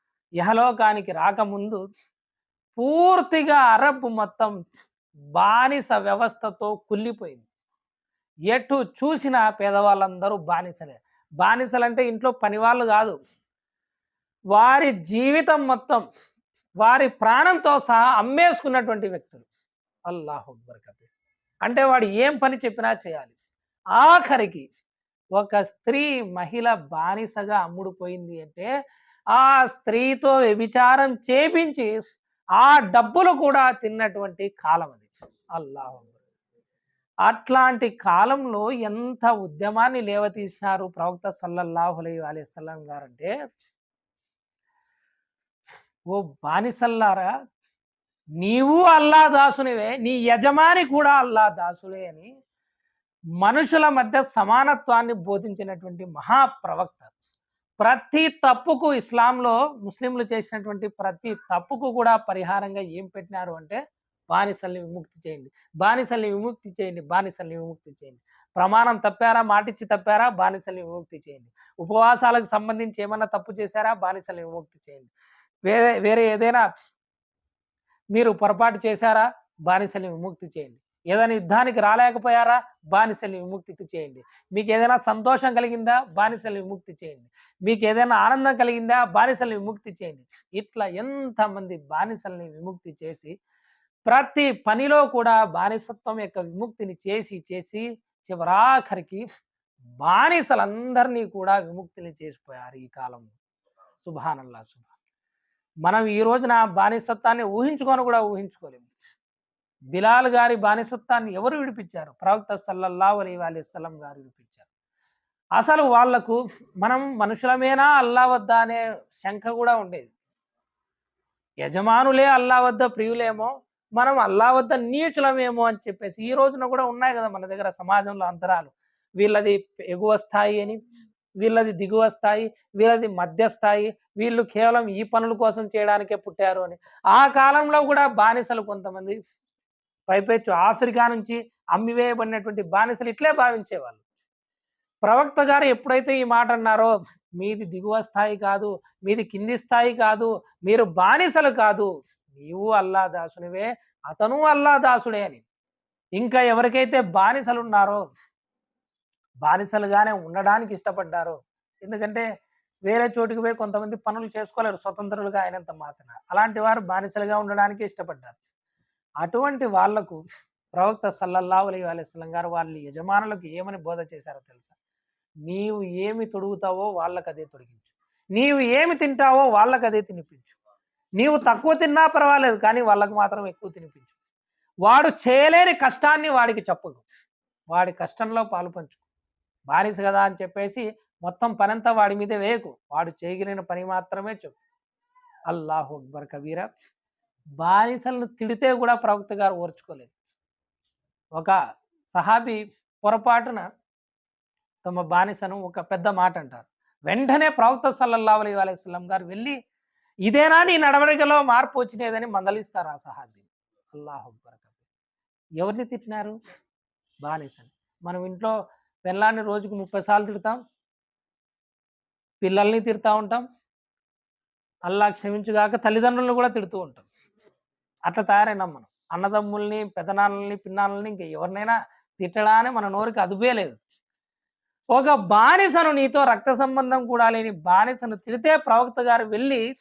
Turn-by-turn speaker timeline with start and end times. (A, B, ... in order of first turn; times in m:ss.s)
0:00.4-0:01.8 A
0:02.8-0:04.5 A
0:05.4-0:07.4 A
0:08.5-0:13.2 A
0:14.6-0:16.0 A
0:16.8-0:19.4 A
0:20.1-0:21.1 A
0:21.7-0:23.3 A
0:24.0-0:24.6 A
0:25.4-0:28.7 A
0:29.3-0:31.9 A
0:32.6-0:36.2 A
0:37.3-0:43.3 A
0:46.1-0:47.3 A
0:48.4-0:52.3 A
0:53.4-0:57.1 A
0:57.8-1:03.8 A
1:04.3-1:15.1 A
1:15.7-1:16.7 A
1:18.1-1:33.4 A
1:34.1-1:39.2 A
1:40.0-1:43.4 A
1:44.0-1:44.9 A
1:45.8-1:48.9 A
1:50.0-1:54.7 A
1:55.6-2:00.1 A
2:01.6-2:10.8 A
2:11.4-2:19.2 A
2:20.1-2:24.0 A
2:25.0-2:35.4 A
2:36.2-2:38.0 A
2:39.4-2:42.2 A
2:42.9-2:48.4 A
2:49.2-2:50.2 A
2:50.8-2:54.7 A
2:55.5-3:00.6 A
3:01.2-3:04.1 A
3:04.9-3:07.0 A
3:07.7-3:09.0 A
3:09.7-3:14.6 A
3:15.5-3:16.7 A
3:17.6-3:20.1 A
3:22.1-3:23.7 A
3:24.8-3:29.6 A
3:30.3-3:34.8 A
3:35.6-3:36.4 A
3:37.2-3:38.5 A
3:39.1-3:40.6 A
3:42.4-3:43.4 A
3:44.9-3:47.1 A
3:48.1-3:53.8 A
3:54.9-3:59.6 A